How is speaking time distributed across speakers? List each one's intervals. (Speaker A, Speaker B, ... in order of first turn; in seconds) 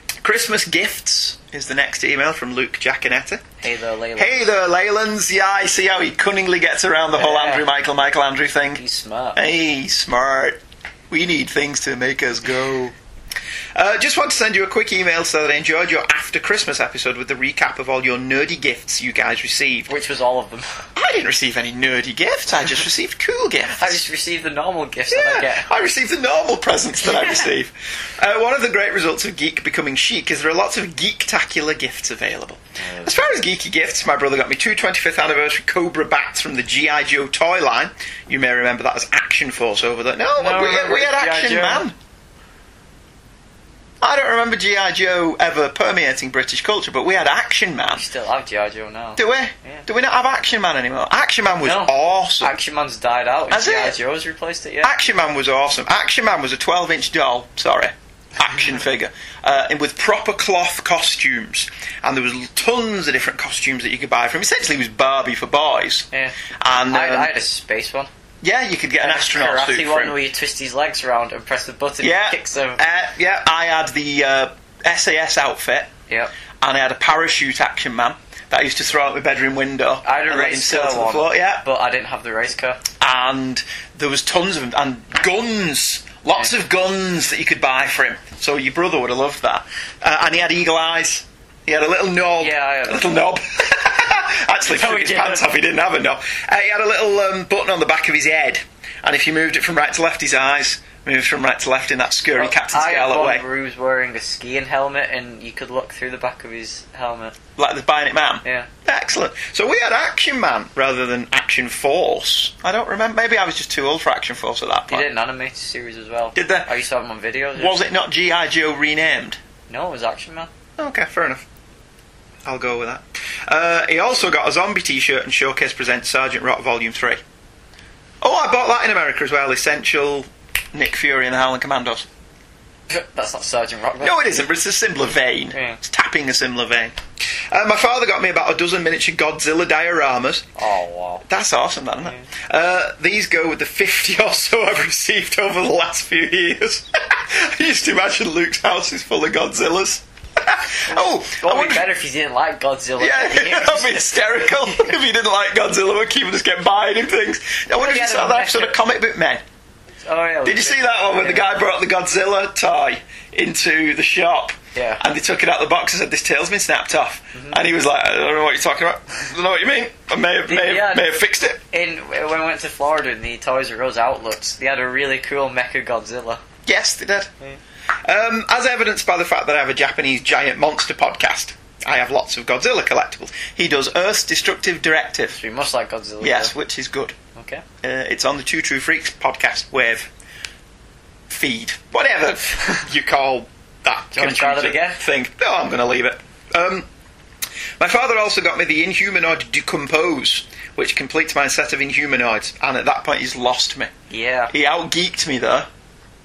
Speaker A: 0.2-3.4, 4.2-8.8, 9.3-12.9, 13.8-19.9, 21.0-24.0, 25.1-42.0, 44.0-48.0, 49.2-52.5, 53.5-54.0, 54.8-66.1, 66.6-67.3, 68.4-70.2, 72.0-75.9, 76.6-81.6, 83.0-103.5, 107.6-115.1, 116.3-116.7, 117.6-119.4, 120.8-121.5, 122.5-127.2, 128.2-132.1, 134.0-136.9, 137.5-140.5, 141.2-151.9, 153.0-159.4, 160.4-171.6, 176.7-177.3, 178.0-185.4, 186.2-187.2, 187.8-190.1, 191.3-196.9, 197.8-203.9, 204.5-205.7
Speaker B: 3.6-4.5, 7.2-7.7, 8.8-9.4, 19.9-20.9, 23.7-25.7, 32.8-33.1, 40.4-41.9, 47.9-49.8, 51.6-54.9, 66.9-68.1, 69.0-72.8, 80.0-82.8, 92.4-93.2, 94.7-95.5, 102.3-107.3, 114.9-117.9, 119.7-120.5, 132.9-134.5, 135.5-135.8, 140.6-141.2, 150.9-154.2, 157.8-158.8, 160.0-161.5, 164.8-165.0, 167.3-167.6, 170.5-171.1, 171.7-176.4, 185.3-186.5, 187.3-187.6, 194.1-195.0, 204.1-204.5